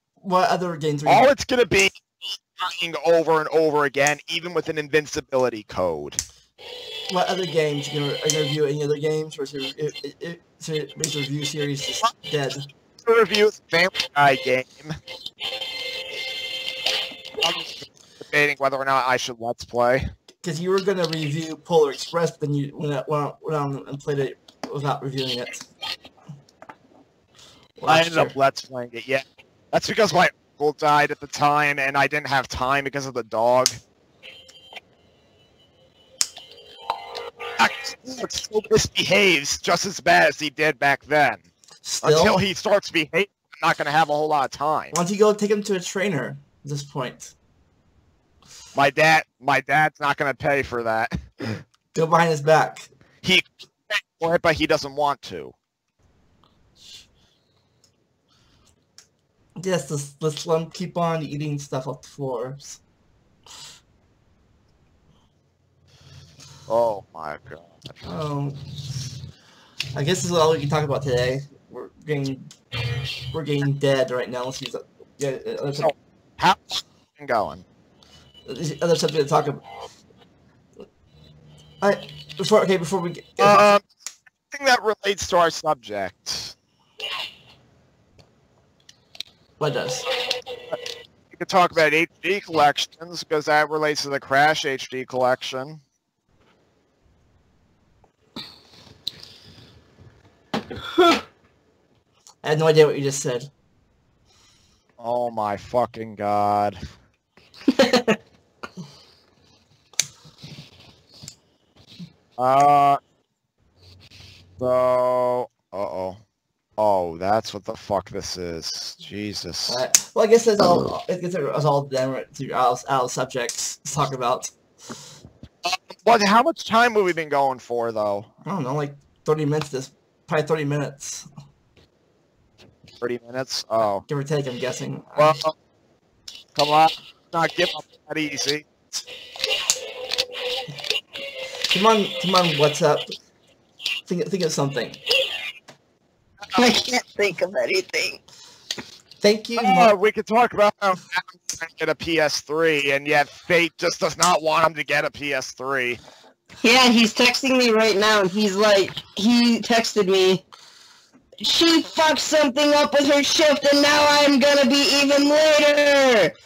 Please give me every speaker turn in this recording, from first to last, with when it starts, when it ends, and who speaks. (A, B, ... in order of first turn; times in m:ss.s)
0:00.2-0:01.3 A
0:01.0-0:06.2 B
0:07.1-0:12.7 A
0:13.0-0:15.0 B
0:17.4-0:20.1 B
0:20.4-0:25.7 A
0:27.8-0:28.3 A
0:27.9-0:33.8 B
0:37.6-0:41.4 B
0:41.8-0:42.4 A
0:42.0-0:44.9 B
0:44.9-0:47.3 A
0:48.7-0:51.6 B
0:51.9-0:52.9 A
0:53.2-0:55.5 B
0:59.6-1:02.8 A
1:06.7-1:07.9 B
1:08.0-1:08.6 A
1:09.9-1:12.5 A
1:13.3-1:15.9 A
1:15.8-1:17.6 B
1:18.4-1:19.6 A
1:21.8-1:23.8 A
1:23.4-1:23.8 B
1:24.5-1:26.5 B
1:29.6-1:30.1 A
1:31.3-1:35.8 B
1:42.4-1:43.5 A
1:45.0-1:46.8 B
1:47.7-1:48.2 C
1:52.4-1:53.0 B
1:54.6-1:56.2 B
1:56.8-1:59.8 B
1:59.7-2:04.5 A
2:05.6-2:08.3 B
2:08.4-2:11.3 A
2:13.0-2:14.0 B
2:14.1-2:15.4 A
2:15.2-2:15.5 B
2:16.5-2:18.7 B
2:21.7-2:23.1 A
2:24.1-2:25.0 A
2:26.5-2:28.2 C
2:29.2-2:29.9 A
2:29.6-2:36.0 B
2:36.6-2:40.4 C
2:41.4-2:46.4 C